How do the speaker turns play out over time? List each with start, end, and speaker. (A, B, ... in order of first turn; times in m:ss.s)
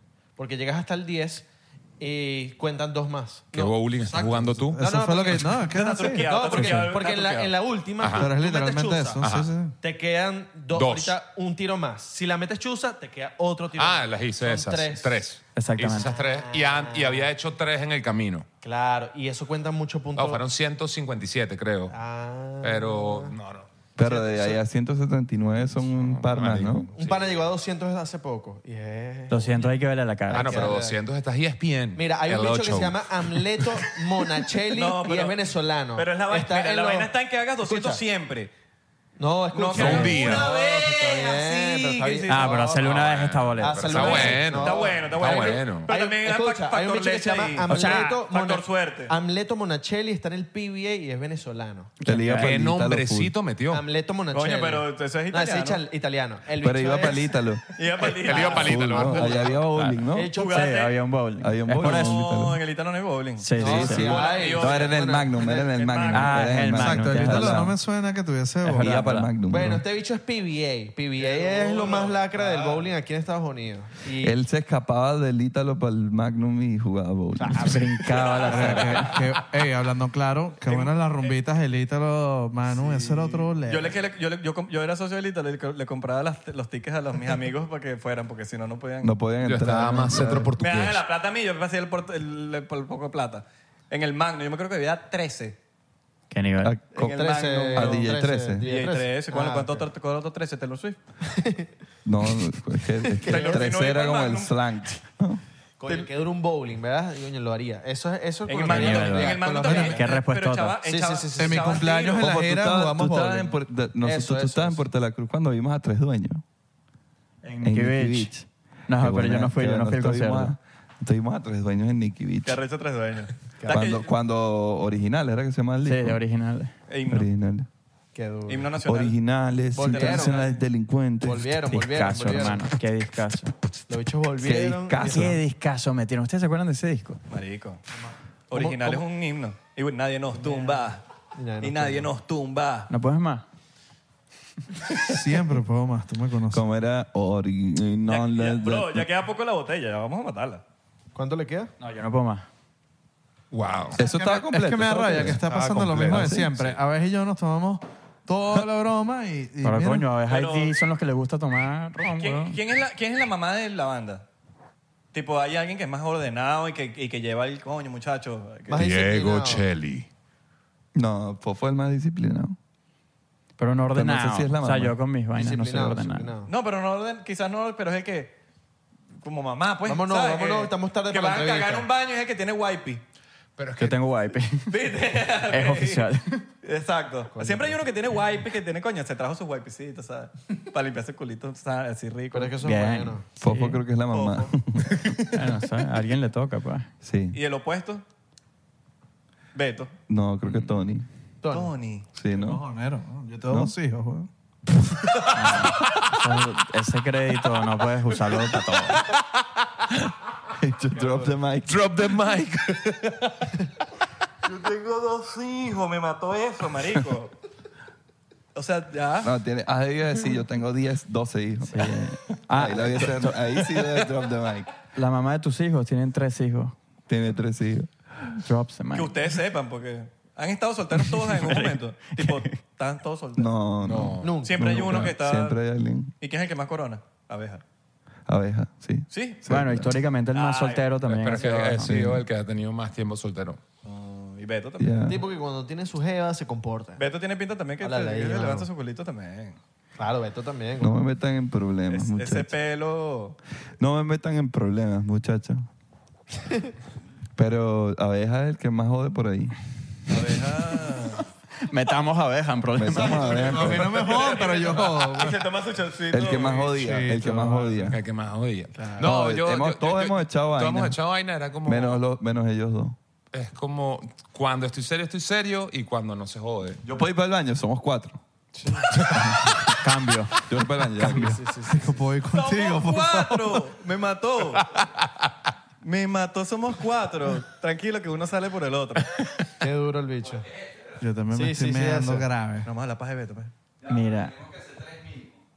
0:00.4-0:01.4 A
0:02.0-0:03.8 A
0:03.5-0:04.8 B
0:04.0-0:06.7 C
0:04.8-0:09.2 A
0:05.6-0:07.5 D
0:06.6-0:06.8 E
0:08.0-0:08.3 B
0:08.2-0:09.8 C
0:09.2-0:09.5 B
0:09.8-0:15.3 A
0:10.7-0:11.2 B
0:13.8-0:18.4 B
0:15.5-0:16.1 E
0:16.0-0:17.3 A
0:18.6-0:20.4 A
0:20.2-0:21.9 B
0:21.9-0:23.3 A
0:22.6-0:23.7 B
0:24.0-0:26.9 F
0:24.0-0:24.6 A
0:25.6-0:27.3 B
0:26.9-0:29.7 A
0:29.3-0:30.7 E
0:30.3-0:31.0 A
0:30.3-0:33.8 B
0:31.9-0:37.1 A
0:34.7-0:35.4 D
0:35.9-0:38.5 D
0:37.6-0:38.0 A
0:39.2-0:42.8 A
0:39.5-0:43.0 D
0:39.7-0:40.5 B
0:42.3-0:44.3 E
0:42.8-0:45.9 B
0:43.6-0:52.0 A
0:43.9-0:49.1 D
0:47.7-0:48.2 E
0:52.0-0:52.6 E
0:52.0-0:53.3 F
0:52.3-0:53.8 B
0:53.7-0:57.4 A
0:54.3-0:55.8 D
0:56.6-0:57.6 F
0:57.8-0:59.6 D
0:58.0-0:59.6 B
0:58.3-0:58.7 A
0:58.5-1:00.3 F
0:59.8-1:02.2 E
1:00.1-1:00.7 A
1:00.3-1:00.9 D
1:01.4-1:02.6 F
1:01.8-1:06.4 D
1:03.4-1:04.2 E
1:03.6-1:05.7 A
1:03.6-1:07.8 F
1:06.1-1:07.7 E
1:06.6-1:08.9 C
1:08.6-1:09.8 F
1:08.7-1:09.3 E
1:09.5-1:14.4 A
1:11.2-1:12.9 D
1:14.2-1:17.7 F
1:17.4-1:17.8 A
1:17.6-1:19.2 E
1:18.2-1:19.0 D
1:18.4-1:23.9 C
1:20.6-1:21.3 D
1:22.7-1:29.1 D
1:29.0-1:30.5 F
1:29.4-1:31.0 B
1:30.6-1:35.6 D
1:36.3-1:36.8 E
1:36.6-1:37.2 F
1:36.9-1:38.1 D
1:36.9-1:39.8 A
1:37.7-1:38.7 F
1:38.6-1:41.0 D
1:41.2-1:41.7 A
1:42.0-1:45.4 F
1:43.0-1:43.7 A
1:43.2-1:44.5 D
1:45.8-1:50.0 A
1:48.5-1:52.3 D
1:48.7-1:50.8 E
1:49.5-1:50.0 C
1:50.8-1:52.1 A
1:51.4-1:53.5 C
1:52.2-1:56.4 F
1:54.0-1:54.8 A
1:57.4-2:00.5 E
1:57.6-1:58.3 F
1:58.9-2:02.6 F
2:02.4-2:04.1 D
2:03.6-2:04.0 A
2:03.7-2:06.2 F
2:05.8-2:06.7 E
2:06.9-2:07.3 D
2:07.1-2:07.7 F
2:08.1-2:08.7 A
2:08.5-2:09.2 D
2:08.8-2:11.6 F
2:09.7-2:10.5 A
2:09.8-2:10.6 D
2:11.2-2:12.7 A
2:11.7-2:13.5 E
2:13.9-2:15.4 A
2:14.4-2:15.4 F
2:15.0-2:17.2 E
2:17.3-2:17.8 D
2:18.5-2:21.0 D
2:18.5-2:19.0 A
2:20.3-2:22.1 A
2:21.6-2:22.9 D
2:22.9-2:23.4 E
2:25.0-2:26.6 C
2:26.5-2:29.1 F
2:28.1-2:30.6 D
2:31.1-2:31.7 A
2:31.8-2:32.4 E
2:33.5-2:34.0 B
2:34.0-2:35.4 F
2:34.0-2:40.1 C
2:35.1-2:36.8 B
2:36.0-2:36.4 F
2:39.6-2:42.6 E
2:40.3-2:40.8 D
2:42.1-2:44.2 D
2:45.1-2:48.8 D
2:48.7-2:49.6 A
2:48.7-2:50.1 B
2:50.9-2:52.6 F
2:53.6-2:56.3 E
2:53.9-2:55.0 F
2:55.4-2:56.5 A
2:56.5-2:58.3 D
2:59.2-3:03.0 D
2:59.8-3:01.9 A
3:03.6-3:04.0 B
3:03.8-3:04.7 E
3:04.7-3:06.0 D
3:05.5-3:06.4 E
3:06.6-3:12.6 D
3:07.3-3:07.8 A
3:12.3-3:13.2 A
3:12.6-3:13.8 E
3:13.4-3:14.9 F
3:14.1-3:14.5 D
3:15.3-3:16.9 E
3:17.0-3:17.4 F
3:17.3-3:18.0 D
3:19.5-3:19.9 D
3:20.1-3:21.0 F
3:21.4-3:21.7 A
3:21.5-3:22.0 D
3:22.2-3:22.6 F
3:22.3-3:24.3 C
3:25.3-3:29.0 E
3:30.6-3:31.9 F
3:31.6-3:33.3 B
3:34.4-3:37.3 D
3:38.5-3:39.3 D
3:39.2-3:42.0 F
3:41.7-3:43.6 E
3:42.5-3:44.7 F
3:44.9-3:46.8 E
3:47.1-3:47.9 F
3:48.4-3:49.2 E
3:48.9-3:53.5 D
3:51.0-3:52.6 E
3:53.4-3:56.1 F
3:53.8-3:54.4 B
3:54.2-3:55.0 A
3:54.4-3:55.6 D
3:56.2-3:57.6 D
3:58.3-3:59.9 F
3:59.1-3:59.4 D
3:59.4-4:02.2 E
4:00.3-4:00.9 D
4:01.0-4:03.6 B
4:01.8-4:02.2 F
4:03.8-4:05.2 D
4:04.8-4:05.2 F
4:05.1-4:07.0 A
4:07.0-4:09.6 D
4:07.8-4:08.7 A
4:10.0-4:11.0 A
4:10.8-4:12.5 F
4:11.9-4:13.4 D
4:13.8-4:15.6 F
4:17.4-4:19.5 F
4:20.1-4:21.2 D
4:21.7-4:23.8 E
4:22.7-4:24.0 F
4:23.0-4:25.4 C
4:23.7-4:26.7 D
4:26.1-4:28.0 F
4:26.7-4:28.0 C
4:27.9-4:32.0 B
4:29.0-4:31.0 F
4:31.6-4:33.0 F
4:33.3-4:36.8 B
4:36.8-4:38.2 F
4:39.0-4:39.3 B
4:39.1-4:40.4 E
4:40.5-4:41.4 F
4:41.0-4:42.1 A
4:41.1-4:43.6 C
4:42.3-4:44.7 D
4:45.8-4:49.1 D
4:49.6-4:50.5 A
4:51.0-4:52.7 C
4:51.3-4:52.3 A
4:52.6-4:53.5 D
4:53.8-4:54.4 E
4:54.9-4:55.2 F